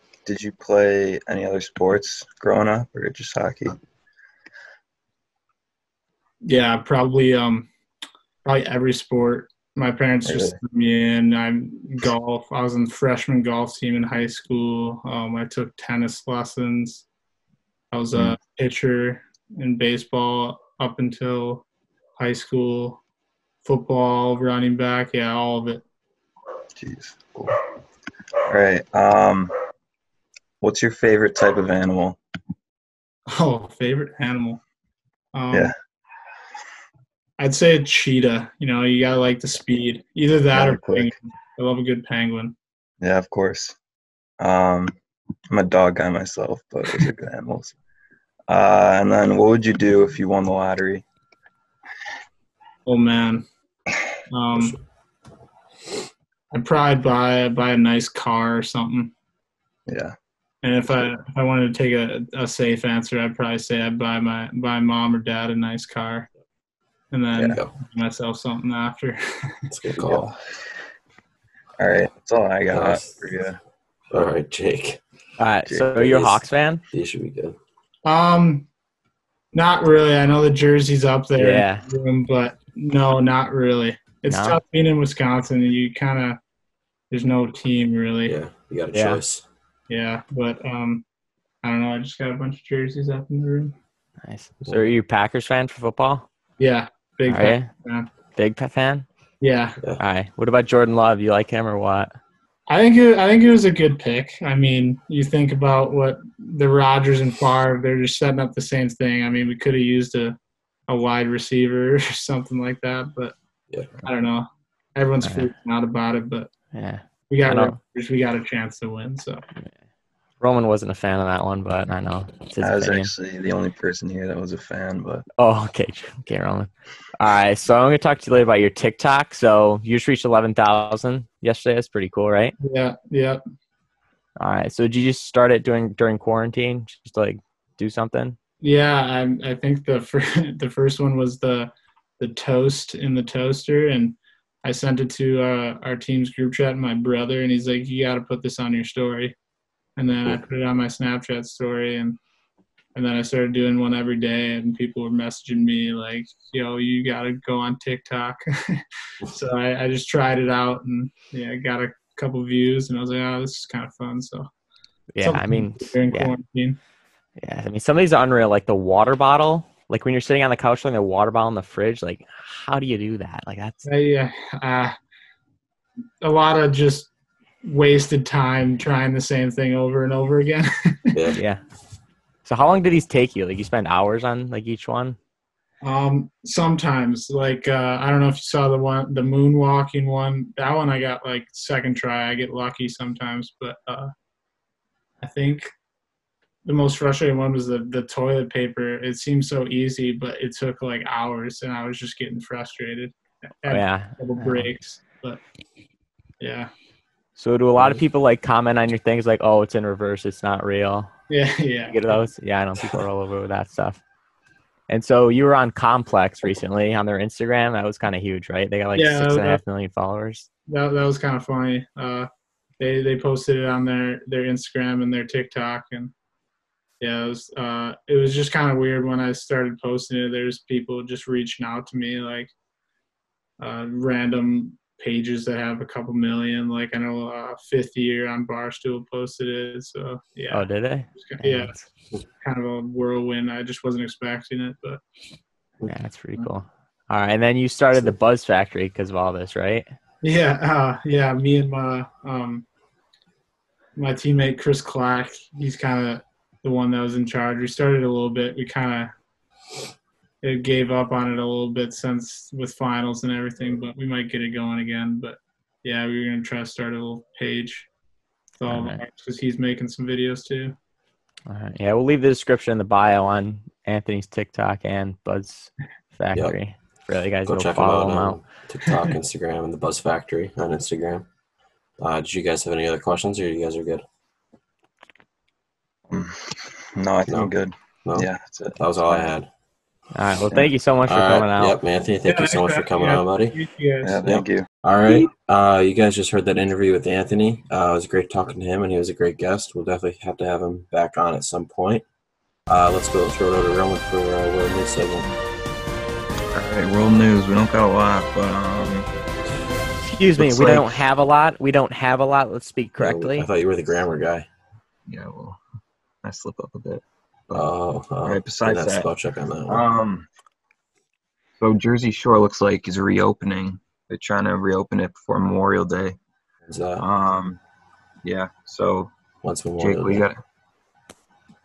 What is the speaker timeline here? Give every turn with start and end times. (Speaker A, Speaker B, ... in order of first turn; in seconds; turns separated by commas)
Speaker A: 0.2-3.8, Speaker B: 6.4-7.7, Speaker B: 8.4-17.0, Speaker A: 10.2-10.6, Speaker B: 17.9-21.6, Speaker B: 22.2-23.0, Speaker B: 23.6-25.8, Speaker A: 26.8-27.5, Speaker A: 28.5-29.5, Speaker A: 30.6-32.2, Speaker B: 33.3-34.6, Speaker B: 35.3-35.7, Speaker B: 37.4-42.5, Speaker A: 40.5-41.1, Speaker A: 43.0-43.8, Speaker A: 44.4-44.9, Speaker A: 45.5-47.8, Speaker A: 48.5-51.0, Speaker B: 52.9-53.4, Speaker B: 54.3-54.8, Speaker C: 54.5-54.8, Speaker B: 56.5-59.1, Speaker A: 59.9-60.1, Speaker B: 60.6-66.3, Speaker B: 67.1-69.6, Speaker A: 67.3-67.6, Speaker C: 69.7-70.3, Speaker A: 70.0-70.4, Speaker A: 71.8-73.6, Speaker C: 72.7-73.2, Speaker C: 74.1-75.0, Speaker D: 75.4-76.8, Speaker C: 75.9-77.6, Speaker B: 78.0-78.7, Speaker B: 79.5-86.4, Speaker D: 81.4-81.8, Speaker D: 84.3-84.6, Speaker B: 87.1-88.3, Speaker C: 88.2-89.4, Speaker D: 88.9-89.2, Speaker B: 89.9-91.0, Speaker B: 91.6-93.7, Speaker D: 94.2-96.2, Speaker C: 94.6-94.9, Speaker B: 96.6-98.1, Speaker D: 97.3-97.7, Speaker D: 98.3-99.0, Speaker B: 99.4-99.8, Speaker D: 100.0-102.1, Speaker B: 102.7-110.3, Speaker B: 110.9-113.3, Speaker B: 114.0-116.5, Speaker D: 115.2-115.5, Speaker D: 116.7-117.8, Speaker B: 117.3-119.4, Speaker D: 120.4-123.1, Speaker A: 122.6-125.2, Speaker D: 125.4-132.5, Speaker B: 132.6-133.4, Speaker D: 134.4-138.3, Speaker B: 138.6-149.3, Speaker B: 150.0-152.2, Speaker B: 152.9-164.5, Speaker D: 165.1-166.3, Speaker B: 165.2-166.8, Speaker D: 167.4-173.9, Speaker B: 173.8-174.9, Speaker B: 176.2-177.1, Speaker B: 177.6-181.1, Speaker C: 181.1-181.4, Speaker D: 182.4-185.2, Speaker B: 185.8-194.1, Speaker B: 195.2-195.7, Speaker B: 196.6-205.4, Speaker D: 203.7-204.7, Speaker B: 206.4-206.7, Speaker D: 207.4-211.1, Speaker B: 211.3-212.0, Speaker D: 211.9-214.0, Speaker D: 214.9-220.5, Speaker B: 218.9-219.6, Speaker B: 220.7-222.3, Speaker B: 222.8-226.1, Speaker B: 227.0-232.5, Speaker B: 233.6-241.8, Speaker D: 240.5-241.8, Speaker B: 242.4-245.0, Speaker D: 245.9-249.9, Speaker B: 250.2-252.6, Speaker B: 253.9-259.1, Speaker B: 260.4-267.9, Speaker B: 268.6-270.7, Speaker D: 268.7-269.0, Speaker D: 271.5-278.4, Speaker C: 277.4-281.3, Speaker C: 282.0-284.0, Speaker A: 286.1-289.3, Speaker C: 288.1-289.5, Speaker D: 290.1-291.8, Speaker C: 291.1-293.6, Speaker B: 292.2-294.2, Speaker A: 294.0-294.7, Speaker C: 294.2-302.0, Speaker C: 302.7-305.3, Speaker A: 306.5-309.1, Speaker D: 310.0-313.5, Speaker C: 310.4-310.9, Speaker A: 310.4-310.8, Speaker C: 313.0-314.5, Speaker A: 315.1-315.6, Speaker A: 316.2-317.7, Speaker C: 317.5-319.8, Speaker A: 318.2-319.1, Speaker A: 319.7-320.3, Speaker A: 321.6-326.2, Speaker C: 326.6-327.0, Speaker A: 327.0-327.6, Speaker A: 328.2-329.1, Speaker C: 329.4-330.2, Speaker A: 329.8-330.4